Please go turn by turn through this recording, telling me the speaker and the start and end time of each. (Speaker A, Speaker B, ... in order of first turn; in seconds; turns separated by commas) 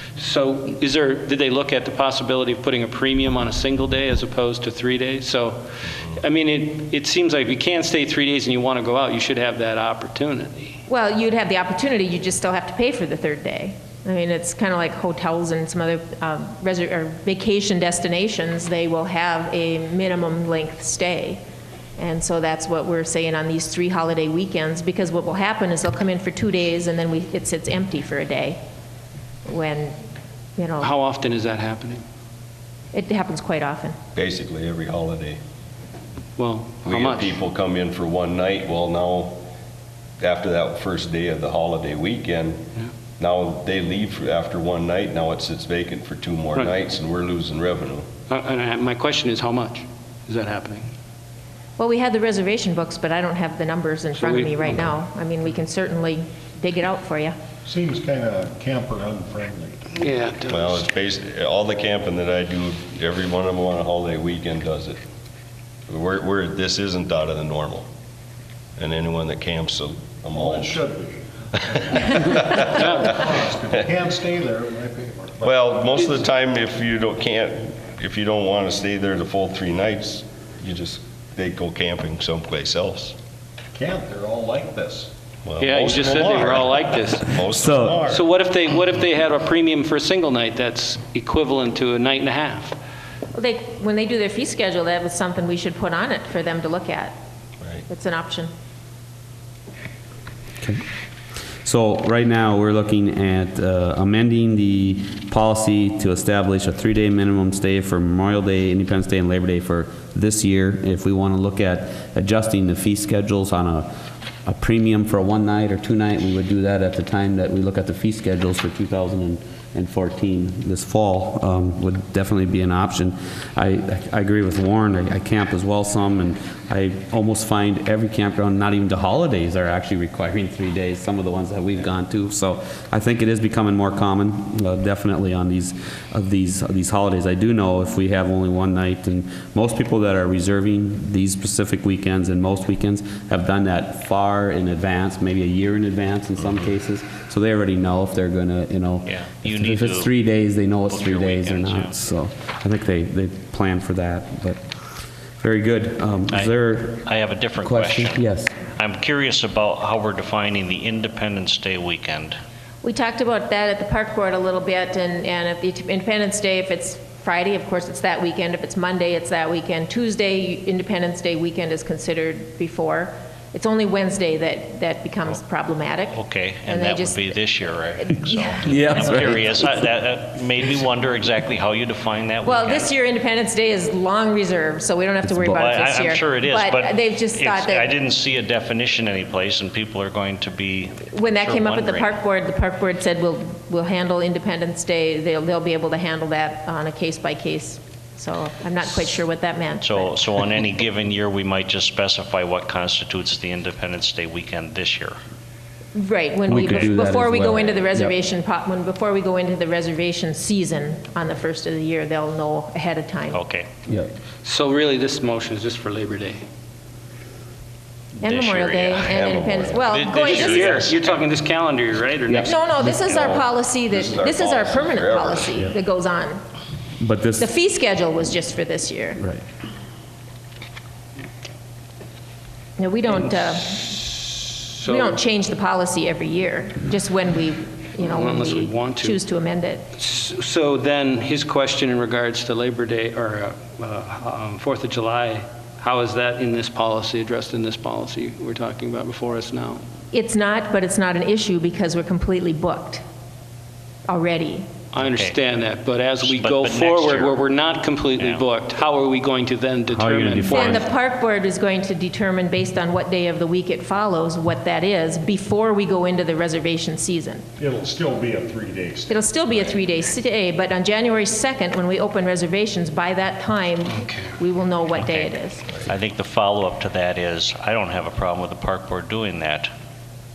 Speaker A: 0.1-10.8, Speaker B: 10.9-21.4, Speaker B: 22.0-28.6, Speaker B: 29.4-29.9, Speaker B: 30.6-30.9, Speaker A: 30.8-32.0, Speaker B: 32.9-34.0, Speaker C: 34.1-35.4, Speaker A: 36.4-37.4, Speaker C: 36.8-39.4, Speaker C: 40.2-42.6, Speaker C: 43.2-48.1, Speaker A: 48.3-50.9, Speaker B: 51.8-57.4, Speaker A: 54.1-54.9, Speaker D: 57.6-59.8, Speaker A: 59.9-60.8, Speaker C: 60.5-65.0, Speaker C: 65.9-67.9, Speaker C: 68.8-70.8, Speaker D: 70.3-71.2, Speaker D: 71.8-72.2, Speaker C: 72.1-73.2, Speaker D: 72.7-75.5, Speaker A: 72.8-73.1, Speaker C: 75.4-83.2, Speaker D: 83.7-85.1, Speaker C: 85.4-88.2, Speaker A: 85.6-87.4, Speaker E: 87.5-88.1, Speaker A: 88.0-92.8, Speaker B: 93.3-97.2, Speaker B: 97.9-98.5, Speaker E: 101.6-113.9, Speaker E: 114.4-154.8, Speaker F: 149.0-150.1, Speaker F: 150.9-152.0, Speaker E: 155.4-157.1, Speaker F: 156.3-162.4, Speaker E: 157.6-158.5, Speaker B: 162.8-177.3, Speaker F: 176.1-182.9, Speaker B: 178.0-179.3, Speaker E: 178.6-179.8, Speaker B: 182.4-187.9, Speaker E: 185.2-185.8, Speaker F: 185.5-192.2, Speaker B: 191.1-200.1, Speaker F: 199.8-205.2, Speaker B: 205.9-213.4, Speaker E: 206.5-208.1, Speaker F: 206.5-206.9, Speaker F: 213.3-213.7, Speaker A: 214.4-216.4, Speaker B: 218.2-220.9, Speaker F: 218.2-219.2, Speaker C: 219.0-219.9, Speaker F: 219.8-221.2, Speaker A: 220.2-222.6, Speaker E: 222.3-222.9, Speaker B: 222.4-226.4, Speaker C: 223.0-225.7, Speaker E: 227.0-227.5, Speaker B: 227.4-229.2, Speaker B: 232.8-234.2, Speaker A: 234.7-235.1, Speaker B: 234.8-239.8, Speaker A: 238.0-239.2, Speaker A: 239.9-249.8, Speaker B: 250.1-253.0, Speaker B: 254.1-254.7, Speaker A: 254.9-260.9, Speaker F: 255.0-255.3, Speaker F: 256.2-257.4, Speaker F: 258.2-258.4, Speaker E: 259.9-260.9, Speaker B: 260.5-267.4, Speaker D: 267.6-269.8, Speaker B: 269.1-275.6, Speaker A: 273.9-274.3, Speaker F: 275.0-275.3, Speaker F: 275.9-279.7